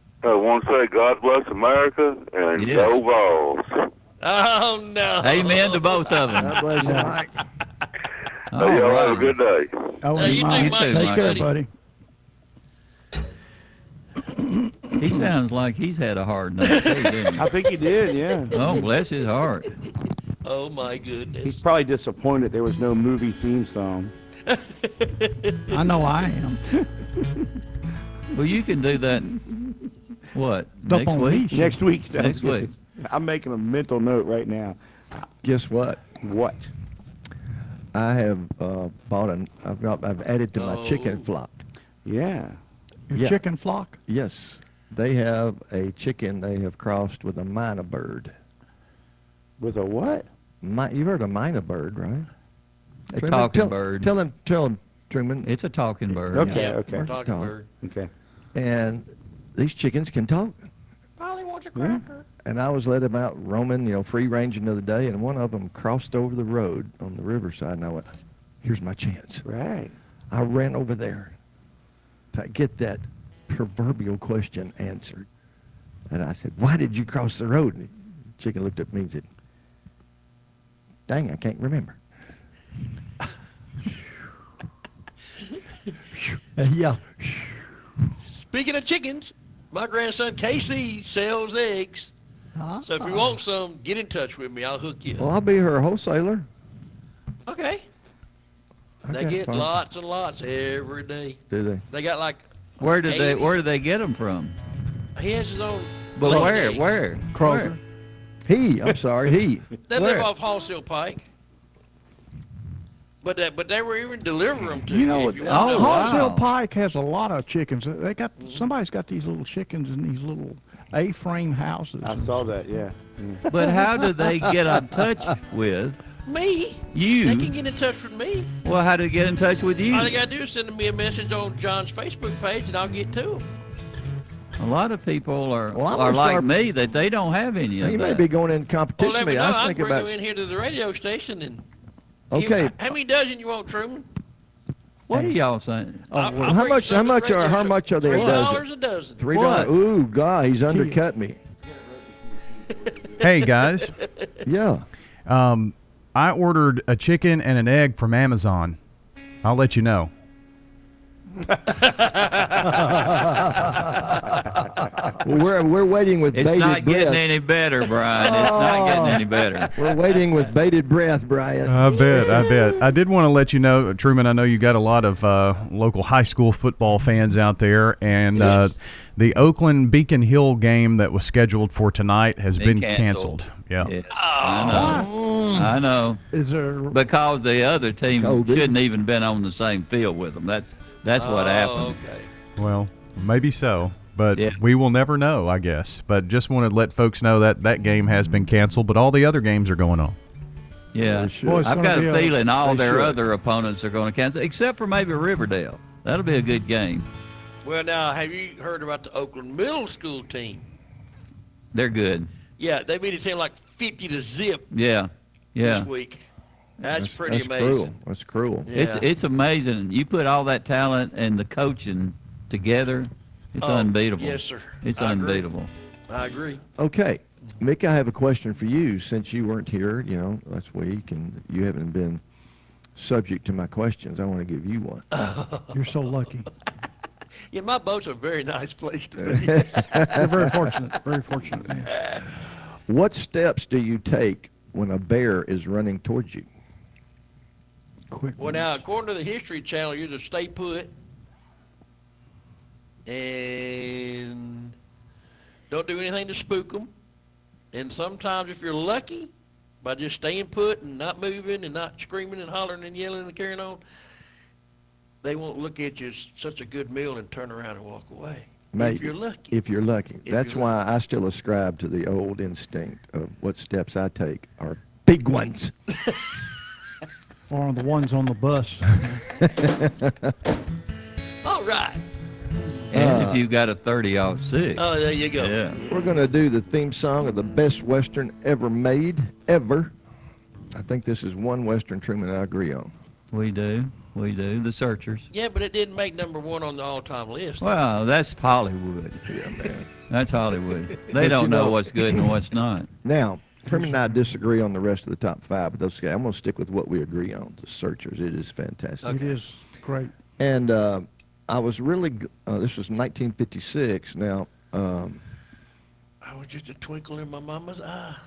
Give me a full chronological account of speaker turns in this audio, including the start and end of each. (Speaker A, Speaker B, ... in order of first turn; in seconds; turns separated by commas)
Speaker A: 0.2-3.9, Speaker B: 2.6-3.0, Speaker C: 4.2-6.5, Speaker B: 5.2-6.7, Speaker D: 6.3-7.3, Speaker E: 6.8-7.2, Speaker B: 8.5-9.4, Speaker A: 8.6-9.7, Speaker E: 10.0-11.7, Speaker C: 10.2-11.5, Speaker B: 10.2-11.5, Speaker E: 14.4-14.7, Speaker B: 15.0-17.5, Speaker C: 16.6-17.0, Speaker F: 17.4-18.7, Speaker B: 18.5-19.7, Speaker C: 18.5-18.9, Speaker C: 20.4-21.6, Speaker F: 21.4-24.1, Speaker C: 24.5-25.7, Speaker E: 25.7-26.8, Speaker B: 28.3-29.4, Speaker B: 30.3-31.6, Speaker E: 30.9-31.8, Speaker F: 31.5-34.8, Speaker B: 32.1-32.7, Speaker D: 35.4-36.0, Speaker F: 36.2-36.7, Speaker D: 37.9-41.6, Speaker C: 40.5-41.3, Speaker F: 42.0-42.6, Speaker E: 43.1-44.0, Speaker D: 43.1-43.4, Speaker D: 44.1-48.3, Speaker F: 49.6-50.3, Speaker D: 50.6-52.3, Speaker D: 53.1-55.5, Speaker B: 53.1-54.1, Speaker B: 55.4-56.6, Speaker F: 56.3-57.1, Speaker C: 56.4-57.7, Speaker D: 56.9-57.5, Speaker F: 57.8-58.1, Speaker D: 58.5-60.6, Speaker C: 61.2-62.2, Speaker F: 61.8-62.0, Speaker D: 62.4-68.1, Speaker D: 68.6-69.5, Speaker F: 69.5-69.9, Speaker D: 70.3-71.3, Speaker D: 72.3-75.3, Speaker D: 76.1-79.3, Speaker D: 81.1-82.0, Speaker E: 86.6-87.6, Speaker C: 88.3-92.1, Speaker E: 92.6-93.3, Speaker C: 92.8-95.3, Speaker D: 95.2-96.5, Speaker C: 97.5-97.8, Speaker D: 99.0-99.8, Speaker C: 99.1-102.4, Speaker D: 101.5-101.8, Speaker B: 102.8-104.6, Speaker C: 103.0-103.6, Speaker C: 105.2-106.9, Speaker B: 106.2-107.8, Speaker E: 106.2-106.5, Speaker E: 107.3-107.8, Speaker D: 108.5-109.7, Speaker C: 109.9-111.2, Speaker C: 113.2-116.3, Speaker E: 114.9-122.4, Speaker B: 115.5-116.5, Speaker C: 118.4-118.7, Speaker F: 122.0-123.5, Speaker B: 123.5-126.0, Speaker E: 123.5-124.7, Speaker C: 126.3-128.5, Speaker B: 126.9-127.5, Speaker B: 128.6-130.2, Speaker C: 129.9-133.4, Speaker B: 134.6-138.3, Speaker D: 135.7-136.5, Speaker D: 137.8-140.2, Speaker C: 139.0-141.6, Speaker D: 142.3-142.8, Speaker C: 142.3-144.1, Speaker B: 145.1-146.1, Speaker E: 146.1-146.6, Speaker C: 146.1-149.7, Speaker D: 146.4-148.6, Speaker D: 149.2-151.4, Speaker E: 150.7-151.0, Speaker C: 153.2-154.1, Speaker G: 153.2-153.9, Speaker D: 154.4-154.8, Speaker G: 155.3-158.8, Speaker G: 159.4-160.1, Speaker C: 161.8-162.8, Speaker E: 162.8-164.3, Speaker D: 165.2-167.2, Speaker B: 166.3-169.7, Speaker D: 168.2-172.4, Speaker G: 171.7-183.9, Speaker B: 178.4-178.7, Speaker B: 182.6-186.2, Speaker C: 184.1-184.9, Speaker E: 184.7-185.1, Speaker D: 184.9-185.8, Speaker E: 186.3-187.0, Speaker B: 186.9-192.0, Speaker D: 188.1-188.8, Speaker C: 191.2-192.3, Speaker G: 192.6-200.2, Speaker B: 194.3-194.6, Speaker B: 200.9-207.1, Speaker D: 201.0-201.8, Speaker E: 201.4-202.5, Speaker D: 202.6-203.2, Speaker C: 207.6-210.6, Speaker B: 211.7-212.3, Speaker C: 212.6-214.7, Speaker B: 214.7-215.9, Speaker C: 215.6-216.2, Speaker C: 216.8-217.9, Speaker D: 216.8-218.7, Speaker C: 218.7-219.1, Speaker B: 218.7-225.7, Speaker C: 223.6-225.5, Speaker C: 226.1-226.6, Speaker D: 226.8-232.2, Speaker D: 233.0-235.1, Speaker C: 235.1-235.8, Speaker E: 235.7-236.5, Speaker C: 237.5-240.3, Speaker D: 239.2-240.5, Speaker E: 240.1-241.9, Speaker C: 241.9-242.2, Speaker D: 242.9-246.5, Speaker E: 248.1-248.8, Speaker C: 248.4-250.9, Speaker C: 253.1-254.7, Speaker C: 255.7-256.9, Speaker C: 257.7-259.3, Speaker C: 259.8-263.8, Speaker C: 265.2-269.5, Speaker D: 268.7-275.7, Speaker C: 270.2-270.7, Speaker E: 277.5-279.2, Speaker D: 279.5-280.3, Speaker C: 281.4-282.0, Speaker B: 282.9-285.8, Speaker D: 282.9-283.4, Speaker C: 284.8-286.0, Speaker D: 285.9-289.9, Speaker D: 290.7-292.9, Speaker B: 293.3-295.3, Speaker C: 295.3-297.7, Speaker B: 297.6-299.2, Speaker D: 299.3-299.9, Speaker B: 300.1-302.9, Speaker D: 301.1-302.2, Speaker D: 303.0-309.2, Speaker E: 303.7-304.2, Speaker C: 309.0-309.3, Speaker E: 309.1-310.1, Speaker D: 310.4-315.2, Speaker C: 316.2-318.2